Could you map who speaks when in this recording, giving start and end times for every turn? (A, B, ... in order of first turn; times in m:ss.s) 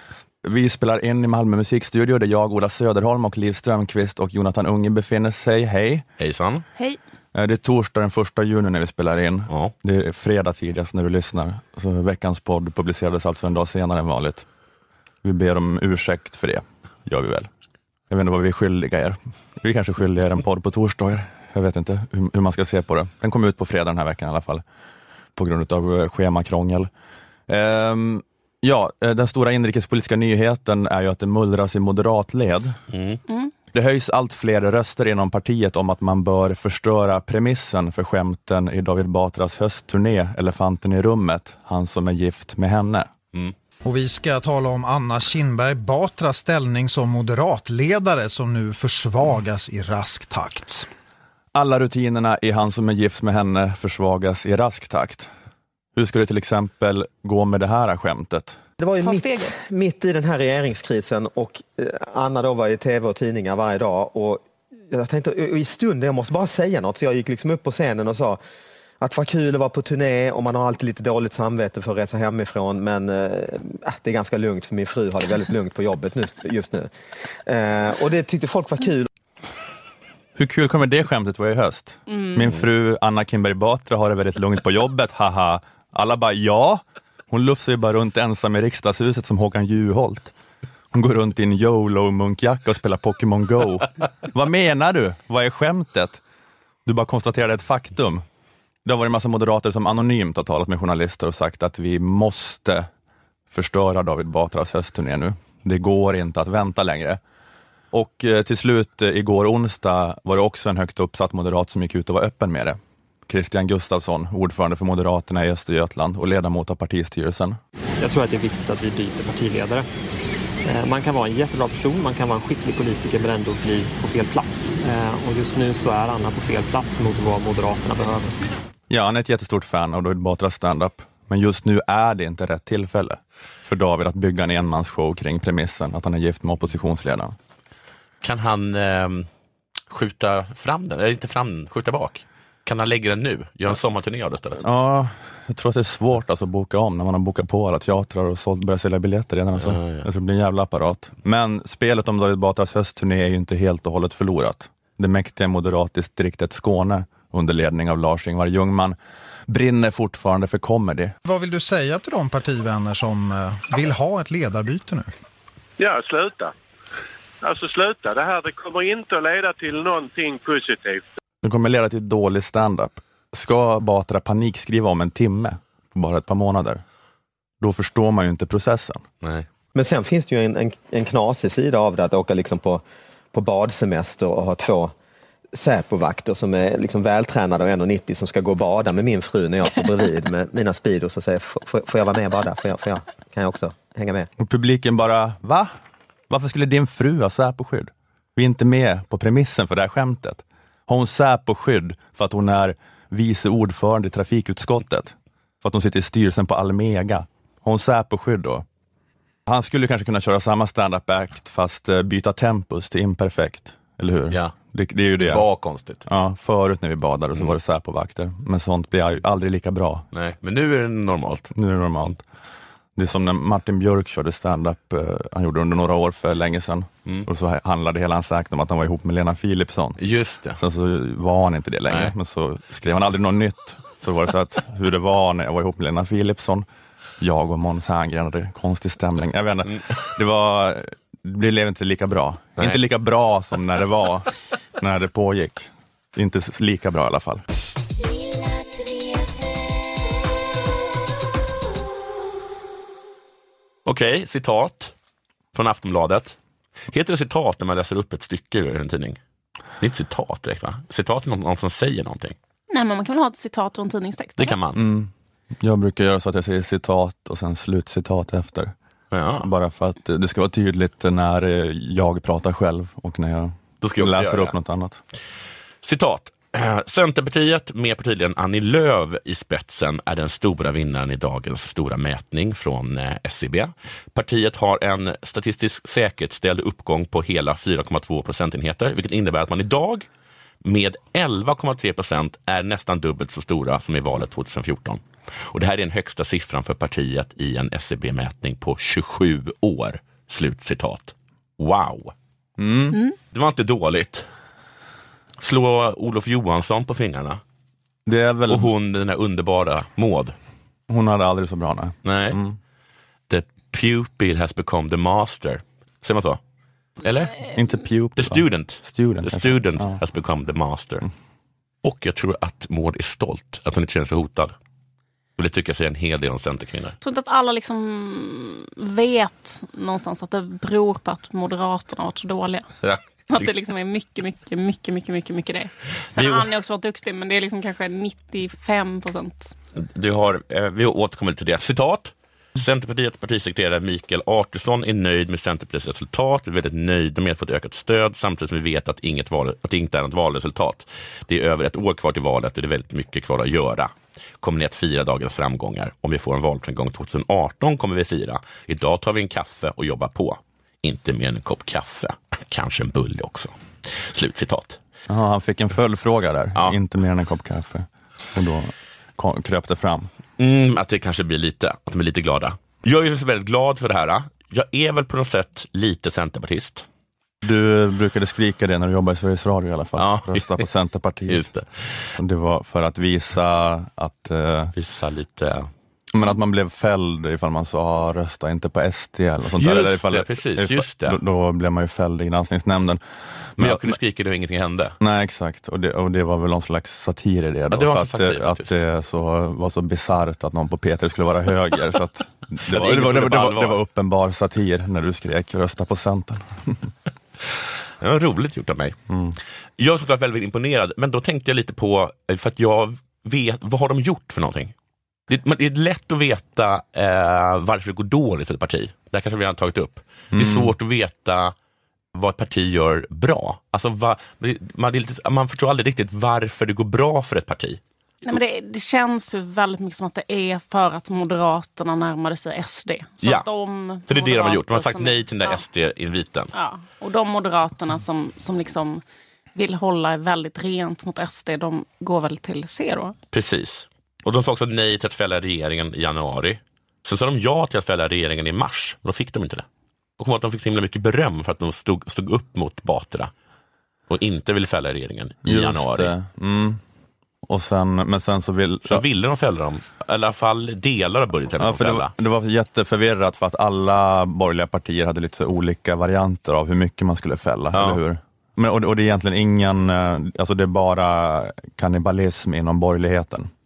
0:00.4-0:06.0 A
0:06.2-0:06.7 B
0:07.3-0:14.5 A
0:15.2-0:17.5 A
0:18.1-0:24.6 A
0:25.4-0:26.9 A
0:27.5-0:32.8 A
0:32.9-0:33.2 B
0:33.7-0:43.1 A
0:43.8-0:50.9 C
0:51.5-0:55.3 A
0:56.0-0:58.6 A
0:58.8-1:08.4 D
1:09.0-1:19.1 D
1:20.4-1:30.3 A
1:22.1-1:22.4 E
1:30.9-1:36.2 A
1:36.9-1:38.2 A
1:38.8-1:42.9 A
1:43.5-1:47.2 A
1:47.9-1:57.6 A
1:58.0-1:59.9 F
2:00.6-2:08.4 F
2:08.9-2:17.4 A
2:18.2-2:19.3 B
2:19.9-2:24.6 B
2:24.6-2:41.1 A
2:29.6-2:30.1 B
2:41.3-2:45.1 C
2:45.8-2:46.5 G
2:47.4-2:51.0 G
2:51.4-2:56.8 A
2:57.6-2:59.0 A
2:59.8-3:05.0 D
3:05.5-3:14.3 D
3:14.4-3:15.7 A
3:16.3-3:28.6 A
3:29.5-3:35.4 A
3:35.2-3:36.0 B
3:36.1-3:40.0 A
3:40.1-3:41.5 B
3:41.5-3:42.2 A
3:43.0-3:50.0 A
3:50.0-3:50.6 B
3:50.6-3:56.7 A
3:57.2-4:07.4 A
3:59.7-3:59.9 B
4:13.9-4:14.9 B
4:15.5-4:16.4 B
4:16.9-4:19.2 B
4:19.8-4:22.4 B
4:22.7-4:24.6 E
4:24.4-4:24.8 B
4:24.7-4:28.7 A
4:29.1-4:29.5 B
4:29.4-4:35.0 A
4:33.8-4:34.5 B
4:35.8-4:50.1 B
4:50.6-5:02.1 B
5:02.6-5:03.0 A
5:03.3-5:04.2 B
5:05.4-5:07.4 B
5:08.1-5:08.7 A
5:08.5-5:10.3 B
5:10.9-5:12.6 A
5:12.0-5:12.4 B
5:13.3-5:16.4 B
5:17.0-5:17.4 B
5:17.5-5:20.0 A
5:18.2-5:21.1 B
5:21.8-5:24.5 B
5:25.4-5:27.0 B
5:27.0-5:32.7 E
5:32.8-5:33.5 B
5:33.3-5:39.6 E
5:36.2-5:36.5 B
5:39.8-6:04.8 B
6:05.1-6:10.1 A
6:10.4-6:16.9 B
6:17.4-6:21.5 A
6:20.0-6:20.6 B
6:21.3-6:22.1 B
6:22.2-6:24.7 A
6:24.8-6:25.7 B
6:26.1-6:34.0 A
6:29.6-6:31.2 B
6:33.6-6:35.0 B
6:35.0-6:46.9 A
6:37.7-6:38.8 B
6:42.7-6:43.8 B
6:48.0-6:49.0 B
6:49.1-6:49.4 A
6:49.8-6:54.7 B
6:55.3-7:01.6 B
7:00.3-7:00.7 A
7:02.1-7:08.4 B
7:08.2-7:15.6 E
7:14.1-7:16.5 B
7:16.5-7:19.0 E
7:19.6-7:23.2 E
7:23.3-7:29.6 B
7:30.2-7:33.3 B
7:34.1-7:36.1 B
7:35.4-7:36.8 A
7:37.4-7:39.0 A
7:38.9-7:42.1 B
7:41.6-7:53.5 A
7:47.7-7:48.0 B